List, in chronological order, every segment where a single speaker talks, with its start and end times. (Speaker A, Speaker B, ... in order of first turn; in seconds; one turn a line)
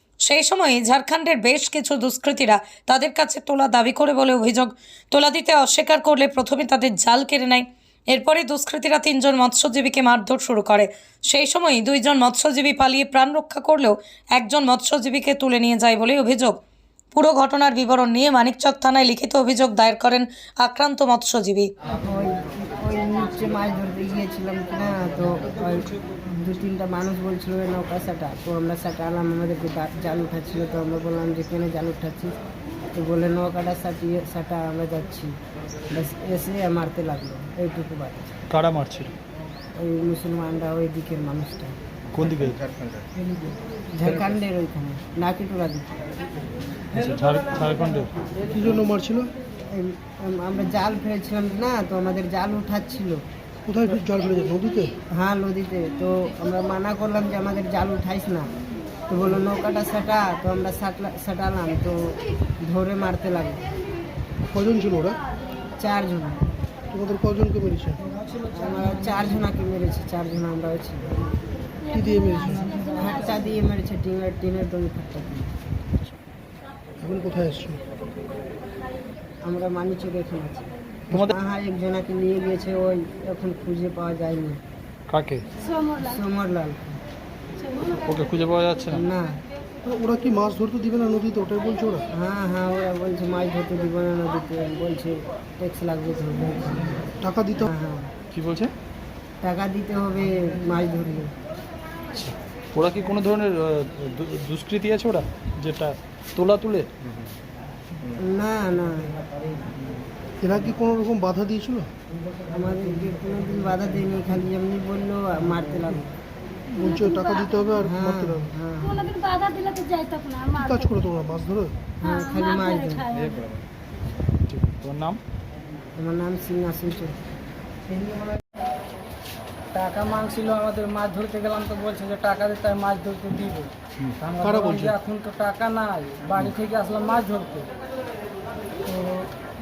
Speaker A: 0.2-16.6
Speaker A: 17.1-21.7
Speaker B: 21.9-32.4
Speaker B: 32.9-35.3
Speaker B: 35.9-38.3
Speaker C: 38.5-39.1
Speaker B: 39.8-41.8
Speaker C: 42.1-42.6
Speaker B: 43.1-45.9
Speaker C: 46.9-48.1
Speaker D: 48.5-49.3
Speaker B: 49.7-53.2
Speaker D: 53.6-54.9
Speaker B: 55.1-58.5
Speaker B: 59.1-63.6
Speaker D: 64.5-65.2
Speaker B: 65.8-66.4
Speaker D: 66.9-68.0
Speaker B: 68.5-71.1
Speaker E: 71.9-73.4
Speaker D: 71.9-72.7
Speaker B: 72.9-75.5
Speaker D: 77.0-77.8
Speaker B: 79.4-84.6
Speaker C: 85.1-85.4
Speaker E: 85.6-86.0
Speaker B: 86.0-87.0
Speaker E: 87.6-88.0
Speaker C: 88.0-89.0
Speaker B: 88.9-89.4
Speaker D: 89.8-92.1
Speaker B: 92.1-97.0
Speaker D: 97.2-97.7
Speaker B: 97.7-98.1
Speaker C: 98.3-98.7
Speaker B: 99.4-101.3
Speaker C: 102.1-106.9
Speaker B: 108.2-109.1
Speaker D: 110.4-111.9
Speaker B: 112.5-116.1
Speaker D: 116.8-118.5
Speaker E: 116.8-117.7
Speaker B: 117.8-119.1
Speaker E: 118.8-121.0
Speaker D: 120.5-121.9
Speaker B: 122.0-123.0
Speaker E: 122.0-123.5
Speaker C: 124.5-125.2
Speaker B: 126.0-127.1
Speaker F: 129.7-137.7
Speaker D: 134.4-134.9
Speaker F: 138.8-139.3